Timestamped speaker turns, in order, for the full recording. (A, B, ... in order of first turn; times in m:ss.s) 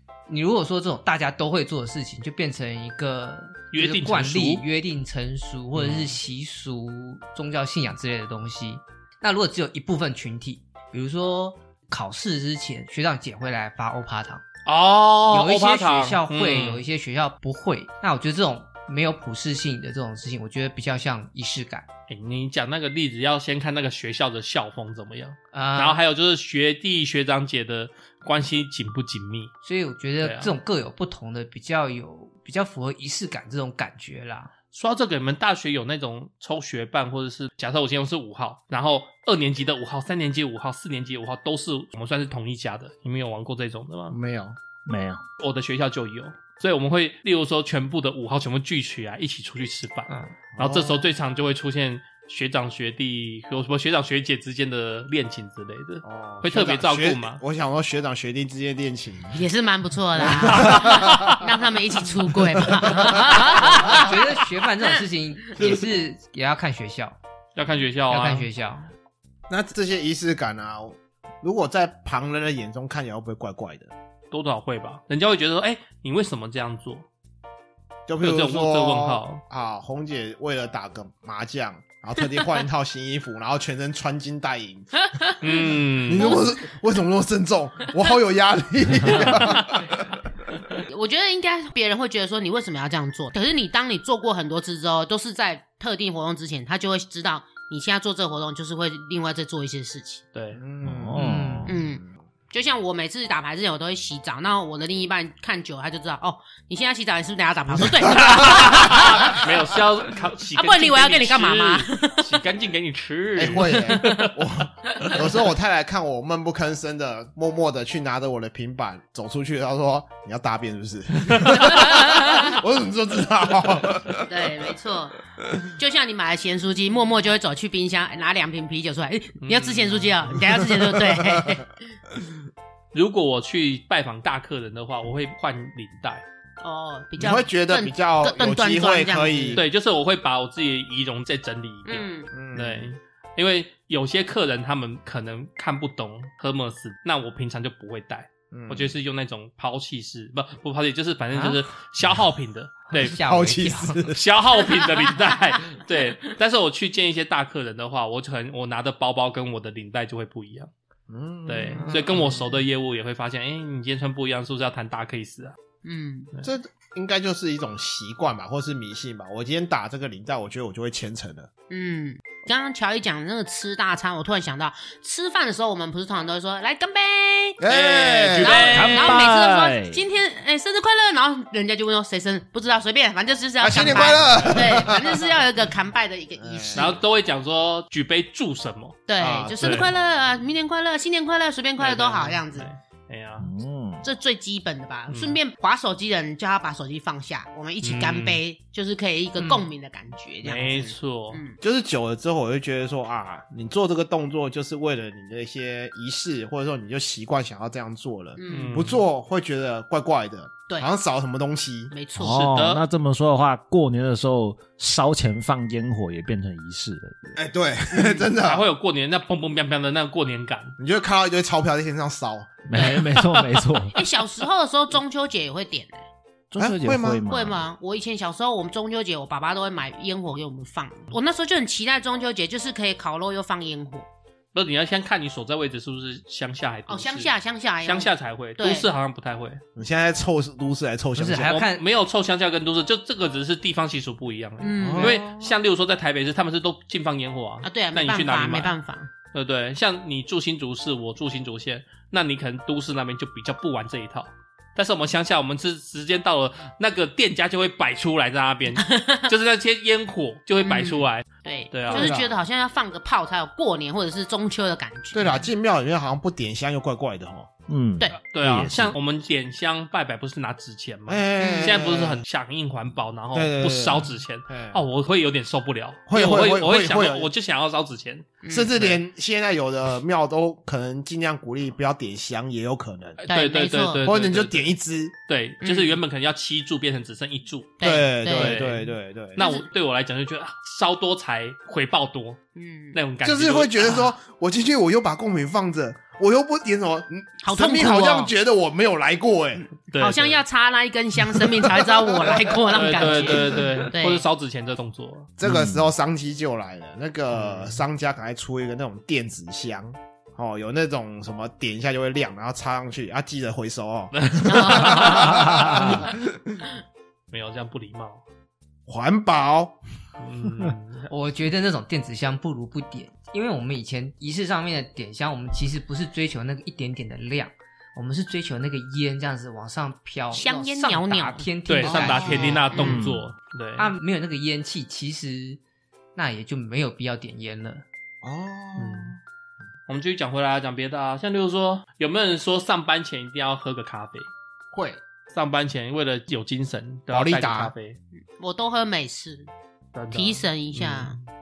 0:00.3-0:14.4 A
0:03.7-0:04.6 B
0:05.7-0:06.2 B
0:14.6-0:16.8 B
0:15.3-0:21.9 A
0:22.1-0:29.5 B
0:25.5-0:26.0 A
0:29.6-0:34.5 A
0:30.2-0:30.5 B
0:34.7-0:44.2 B
0:44.1-0:44.6 C
0:44.8-0:45.2 D
0:45.4-0:57.4 B
0:50.6-0:51.0 C
0:56.0-0:59.4 C
0:59.3-1:04.2 E
1:00.2-1:01.4 C
1:02.6-1:04.1 C
1:03.4-1:07.2 A
1:07.6-1:08.5 B
1:08.1-1:08.9 A
1:09.5-1:13.9 C
1:14.3-1:17.0 B
1:18.1-1:25.3 C
1:18.2-1:19.4 B
1:25.2-1:26.4 E
1:25.4-1:26.4 B
1:26.0-1:30.2 C
1:29.2-1:29.6 B
1:30.9-1:40.2 E
1:40.3-1:40.6 B
1:40.5-1:41.2 C
1:40.8-1:41.8 D
1:41.2-1:41.7 A
1:41.7-1:49.4 E
1:41.8-1:42.2 C
1:47.8-1:49.4 C
1:48.1-1:54.4 B
1:50.5-1:52.2 E
1:53.4-2:04.6 C
2:01.8-2:02.5 E
2:04.2-2:05.2 E
2:05.8-2:11.7 E
2:09.4-2:10.1 B
2:10.8-2:11.6 C
2:12.9-2:16.2 B
2:16.6-2:19.6 E
2:17.2-2:19.6 C
2:19.5-2:33.2 B
2:21.8-2:22.3 E
2:22.3-2:22.9 C
2:28.5-2:29.0 C
2:31.3-2:31.6 A
2:32.9-2:34.1 A
2:33.1-2:34.2 C
2:34.1-2:40.7 B
2:41.1-2:41.8 C
2:41.5-2:45.6 B
2:41.8-2:42.6 A
2:45.8-2:46.3 E
2:46.4-2:51.5 C
2:51.7-2:57.6 E
2:57.6-2:58.6 C
2:57.6-2:59.2 B
2:58.4-3:07.0 E
2:58.7-3:00.0 D
3:03.6-3:05.3 C
3:06.4-3:07.0 C
3:06.7-3:09.9 B
3:09.1-3:12.7 E
3:09.2-3:09.9 C
3:11.8-3:13.5 B
3:13.4-3:14.0 D
3:14.0-3:21.6 E
3:15.1-3:15.4 B
3:17.8-3:18.4 B
3:19.4-3:19.6 B
3:20.4-3:21.4 B
3:21.6-3:31.9 C
3:28.4-3:28.9 E
3:28.5-3:29.0 B
3:31.9-3:32.4 E
3:32.2-3:37.4 D
3:32.3-3:32.8 B
3:37.4-3:38.6 C
3:37.9-3:38.3 E
3:38.4-3:40.8 B
3:40.8-3:42.6 C
3:42.7-3:44.0 D
3:42.8-3:43.6 B
3:43.9-3:46.0 E
3:46.5-3:47.6 D
3:46.6-3:47.3 C
3:47.2-3:54.0 E
3:54.5-3:57.3 B
3:56.9-3:58.9 E
3:57.8-3:59.6 B
3:59.8-4:01.6 C
4:01.2-4:01.8 A
4:01.5-4:08.7 B
4:04.6-4:05.3 E
4:04.8-4:05.3 C
4:07.6-4:09.1 E
4:09.3-4:22.2 B
4:18.9-4:19.2 E
4:20.6-4:25.4 E
4:21.9-4:22.4 C
4:25.1-4:27.5 C
4:27.7-4:28.9 D
4:28.3-4:39.0 B
4:31.1-4:32.2 C
4:31.4-4:31.8 E
4:33.3-4:34.8 C
4:36.1-4:37.3 C
4:38.4-4:38.8 E
4:38.5-4:43.2 C
4:43.2-4:44.7 B
4:43.3-4:44.0 E
4:44.0-4:45.1 C
4:45.3-4:52.4 B
4:45.6-4:46.0 E
4:47.8-4:48.6 E
4:47.8-4:49.4 C
4:49.4-4:49.6 E
4:52.5-4:53.0 E
4:52.9-4:54.0 B
4:53.2-4:59.7 C
4:57.4-4:58.3 E
4:59.9-5:00.4 B
4:59.9-5:04.2 E
5:01.6-5:03.6 C
5:02.7-5:05.3 B
5:05.4-5:16.2 C
5:05.4-5:05.8 D
5:07.3-5:07.8 B
5:14.2-5:15.2 B
5:14.4-5:15.8 E
5:15.4-5:15.9 D
5:17.3-5:18.2 B
5:18.9-5:19.8 C
5:20.2-5:21.1 B
5:21.1-5:32.8 A
5:30.3-5:33.0 E
5:31.7-5:33.9 B
5:31.8-5:32.6 C
5:32.8-5:33.3 D
5:33.8-5:35.6 A
5:36.2-5:37.8 A
5:38.2-5:39.2 C
5:38.8-5:39.2 B
5:39.9-5:44.3 B
5:44.7-5:45.0 C
5:45.3-5:48.0 B
5:47.1-5:47.7 C
5:48.4-5:49.5 E
5:49.9-5:51.2 B
5:50.1-5:51.1 E